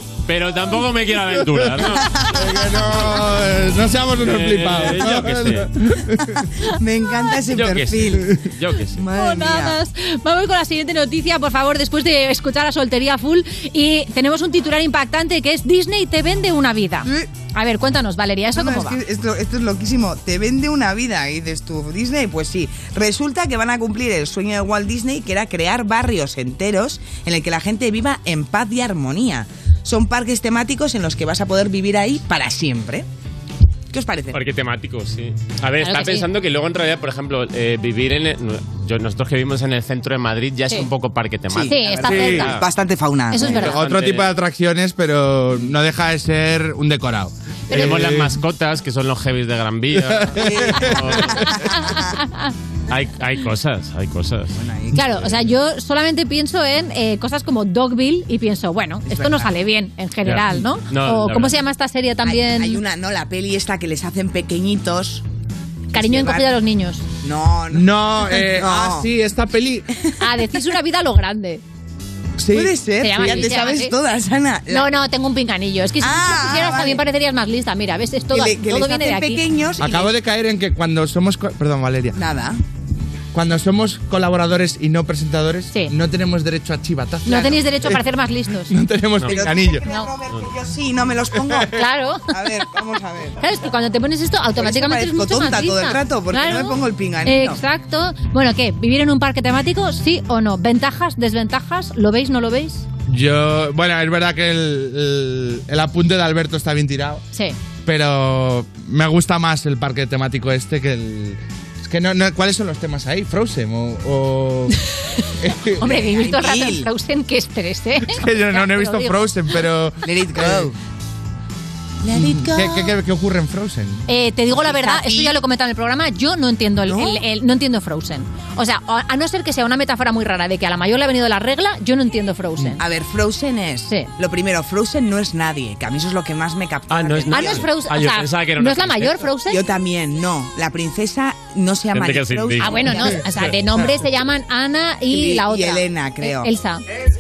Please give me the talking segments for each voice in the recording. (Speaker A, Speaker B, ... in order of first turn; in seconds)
Speaker A: 0.3-2.1, 4.2-5.7, 7.5-9.0, 34.3-42.6, 43.6-44.3, 47.7-51.4, 52.9-54.5, 60.2-61.6, 136.9-139.2, 141.9-143.5
Speaker B: 2.1-2.5, 6.7-8.3, 9.0-9.8, 18.6-33.1, 33.9-34.4, 41.5-43.8, 50.4-52.1, 54.5-55.5, 59.1-59.5, 62.2-65.2, 65.9-66.5, 67.2-69.1, 72.4-74.9, 76.0-77.0, 78.3-80.1, 82.2-82.6, 89.2-91.7, 92.3-93.4, 94.6-97.6, 115.8-116.9, 120.0-120.8, 122.0-122.9, 124.6-125.4, 126.9-127.2, 132.8-137.7, 139.5-143.9, 145.1-146.5
Speaker C: 2.3-6.4, 42.1-42.4, 43.7-48.3, 50.2-50.9, 67.7-69.9, 79.8-82.2, 83.3-88.0, 88.7-89.8, 103.1-107.2, 107.9-114.8, 115.4-115.8, 118.1-120.7, 122.2-124.0
Speaker D: 9.1-19.0, 35.8-36.3, 41.7-42.6, 43.3-43.8, 51.7-52.5, 54.9-62.8, 65.9-67.0, 70.2-71.6, 73.0-73.9, 74.7-79.4, 87.3-88.7, 89.8-90.1, 91.7-92.7, 93.4-102.8, 115.8-119.6, 124.1-132.8, 137.3-139.6, 142.6-146.8